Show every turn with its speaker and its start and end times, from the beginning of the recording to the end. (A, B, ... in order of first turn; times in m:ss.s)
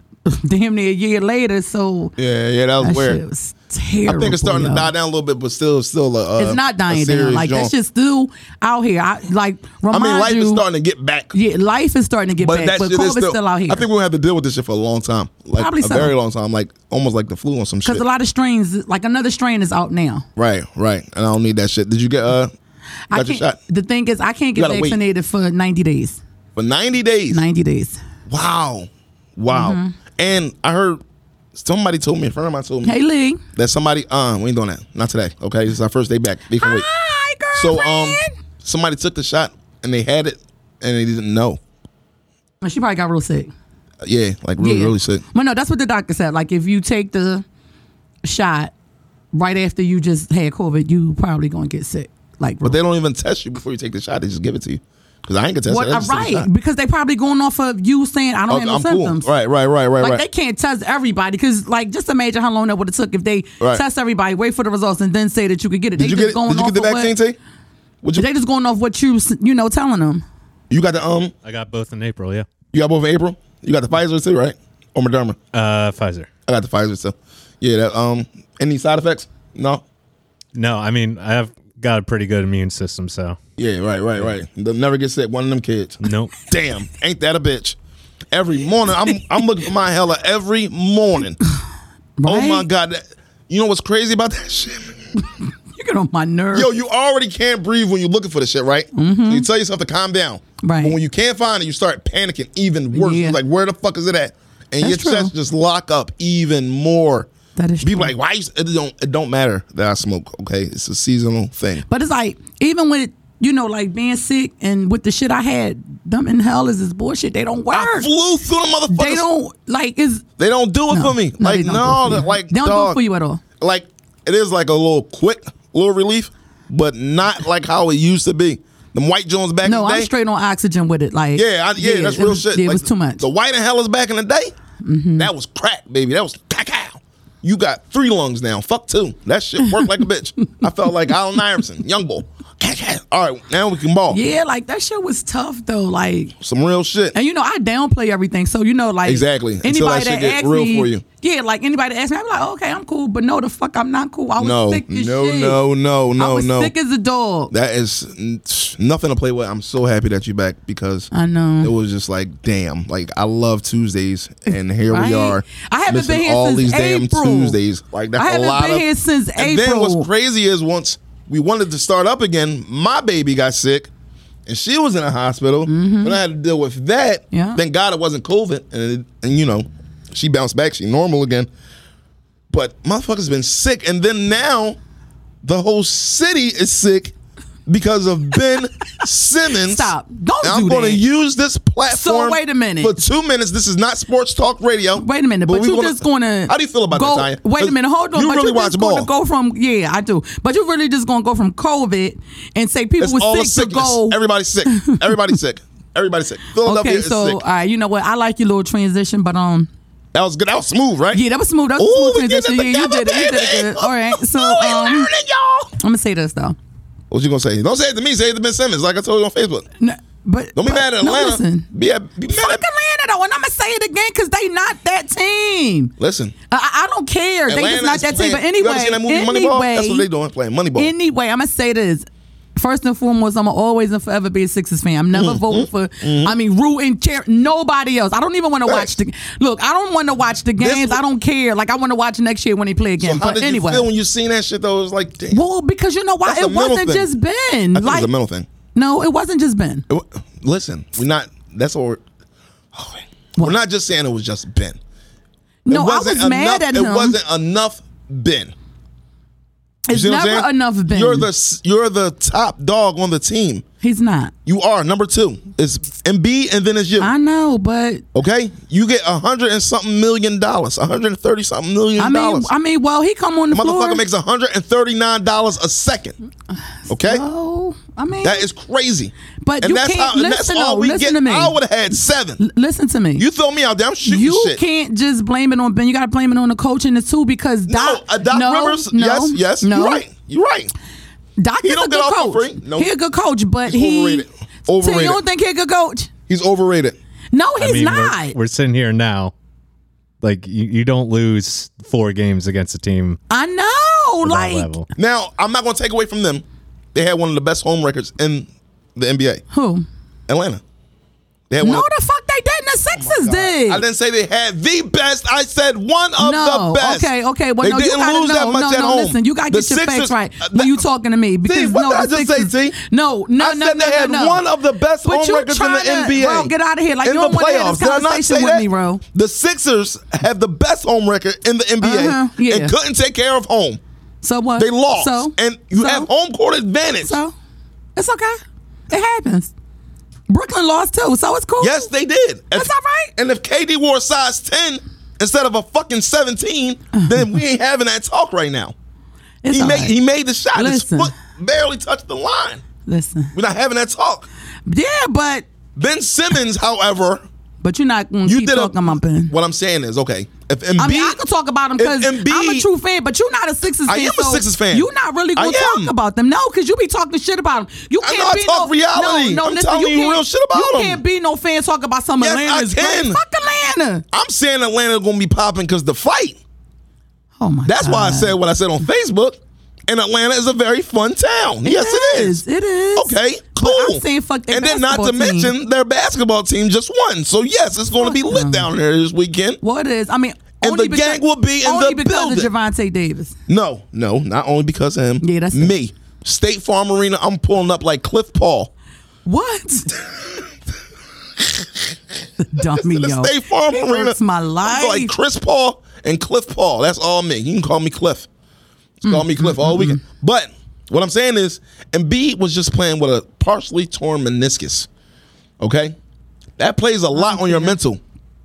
0:00.3-0:02.1 A
0:02.2-0:03.2 B
0:02.8-0:04.9 A
0:04.0-0:07.7 B
0:06.4-0:10.6 A
0:09.9-0:11.3 B
0:11.3-0:13.9 A
0:12.4-0:18.0 B
0:15.5-0:16.1 A
0:17.8-0:20.2 A
0:20.4-0:22.5 B
0:23.1-0:26.2 A
0:23.1-0:23.6 B
0:24.6-0:25.0 B
0:26.6-0:27.4 B
0:27.3-0:28.0 A
0:28.3-0:31.0 B
0:29.5-0:30.0 A
0:31.6-0:33.0 B
0:32.8-0:33.4 A
0:33.6-0:36.9 B
0:36.6-0:38.4 A
0:37.5-0:41.6 B
0:42.6-0:43.5 A
0:44.0-0:45.2 B
0:44.6-0:47.4 A
0:48.2-0:48.7 A
0:49.3-0:52.8 A
0:52.6-0:56.5 B
0:55.7-0:59.3 A
0:58.5-1:00.2 B
1:00.0-1:07.1 A
1:06.0-1:07.4 B
1:08.2-1:10.2 A
1:10.7-1:11.3 B
1:11.4-1:12.5 C
1:12.7-1:15.4 B
1:15.5-1:16.3 C
1:16.5-1:19.8 B
1:20.5-1:23.4 C
1:23.6-1:27.8 B
1:26.0-1:26.4 C
1:28.3-1:31.4 B
1:32.2-1:32.7 A
1:32.2-1:35.0 B
1:35.7-1:36.7 A
1:36.5-1:47.3 B
1:38.9-1:39.5 A
1:40.6-1:41.0 A
1:42.9-1:43.4 A
1:44.8-1:45.3 A
1:47.6-1:48.1 A
1:47.8-1:51.8 B
1:51.9-1:58.1 A
1:57.7-1:59.3 B
1:58.9-2:00.2 A
2:00.4-2:03.0 B
2:00.9-2:03.4 A
2:03.6-2:10.1 B
2:09.6-2:13.2 A
2:11.4-2:14.5 B
2:14.8-2:15.3 A
2:15.2-2:24.2 B
2:24.1-2:26.3 A
2:26.4-2:27.2 B
2:27.1-2:35.6 A
2:29.0-2:31.0 B
2:34.4-2:36.7 B
2:36.2-2:37.5 A
2:37.5-2:41.1 B
2:41.1-2:41.7 A
2:41.6-2:53.9 B
2:44.9-2:47.6 A
2:48.2-2:50.1 A
2:54.5-3:01.5 B
2:55.7-2:56.2 A
2:57.3-2:57.6 A
3:02.5-3:04.8 B
3:05.4-3:07.1 B
3:07.7-3:19.1 B
3:09.5-3:11.0 A
3:11.9-3:13.0 A
3:15.0-3:24.2 A
3:23.0-3:27.4 B
3:24.7-3:25.3 A
3:26.6-3:29.7 A
3:30.1-3:31.2 B
3:31.1-3:35.1 A
3:31.8-3:35.7 B
3:35.8-3:36.6 A
3:37.1-3:39.7 B
3:39.8-3:41.7 A
3:40.6-3:42.6 B
3:42.3-3:45.9 A
3:46.0-3:46.4 B
3:46.5-3:50.1 A
3:47.5-3:50.9 B
3:50.8-3:52.0 A
3:52.6-4:03.9 A
3:55.1-3:56.4 B
3:58.6-3:58.9 B
4:00.6-4:01.0 B
4:03.0-4:05.4 B
4:05.3-4:08.1 A
4:06.2-4:07.1 B
4:07.7-4:08.5 B
4:08.8-4:09.9 A
4:09.9-4:12.0 B
4:12.7-4:14.8 B
4:15.7-4:17.2 A
4:15.7-4:18.5 B
4:19.9-4:21.3 A
4:19.9-4:23.6 B
4:23.8-4:24.3 A
4:24.5-4:27.1 B
4:27.0-4:28.0 A
4:28.1-4:32.5 B
4:32.0-4:34.0 A
4:33.5-4:36.2 B
4:36.9-4:37.2 B
4:36.9-4:38.4 A
4:38.2-4:42.4 B
4:39.4-4:41.6 A
4:42.4-4:43.2 A
4:43.2-4:44.6 B
4:44.0-4:50.0 A
4:47.7-4:50.7 B
4:51.4-4:54.2 A
4:51.6-4:52.9 B
4:53.7-4:55.2 B
4:54.8-4:56.1 A
4:56.3-4:57.0 B
4:57.3-4:58.4 A
4:57.6-4:59.3 C
5:00.2-5:03.2 C
5:03.3-5:04.7 A
5:04.2-5:04.8 C
5:05.0-5:09.4 B
5:09.5-5:09.9 A
5:10.3-5:10.6 B
5:11.5-5:11.9 B
5:11.6-5:13.8 A
5:13.0-5:17.1 B
5:16.2-5:24.4 A
5:17.6-5:20.8 B
5:21.4-5:22.8 B
5:23.4-5:26.5 B
5:25.0-5:29.0 A
5:27.0-5:33.8 B
5:31.8-5:32.8 A
5:34.2-5:36.1 A
5:34.6-5:37.2 B
5:37.0-5:37.3 A
5:38.0-5:38.4 A
5:38.9-5:39.5 A
5:40.3-5:41.9 A
5:41.6-5:48.7 B
5:42.5-5:43.1 A
5:46.9-5:47.2 A
5:49.4-5:50.0 A
5:49.5-5:52.6 B
5:50.5-5:51.1 A
5:52.9-5:53.3 A
5:53.3-5:54.3 B
5:54.7-5:55.5 A
5:55.8-5:57.2 B
5:57.6-5:59.3 A
5:58.2-5:58.8 B
5:59.3-6:01.2 B
6:00.8-6:14.0 A
6:01.8-6:02.7 B
6:03.9-6:05.9 B
6:08.0-6:11.0 B
6:12.2-6:13.2 B
6:14.1-6:16.4 B
6:17.4-6:18.4 A
6:17.6-6:22.4 B
6:21.6-6:25.5 A
6:23.0-6:29.6 B
6:28.0-6:28.7 A
6:29.6-6:33.4 A
6:30.6-6:32.5 B
6:33.5-6:38.7 B
6:35.2-6:35.7 A
6:39.3-6:40.0 A
6:41.4-6:41.9 B
6:42.4-6:45.1 A
6:42.6-6:48.3 B
6:49.0-6:54.9 B
6:49.0-6:50.0 A
6:55.6-6:56.0 B
6:56.6-6:58.0 B
6:57.1-6:57.8 A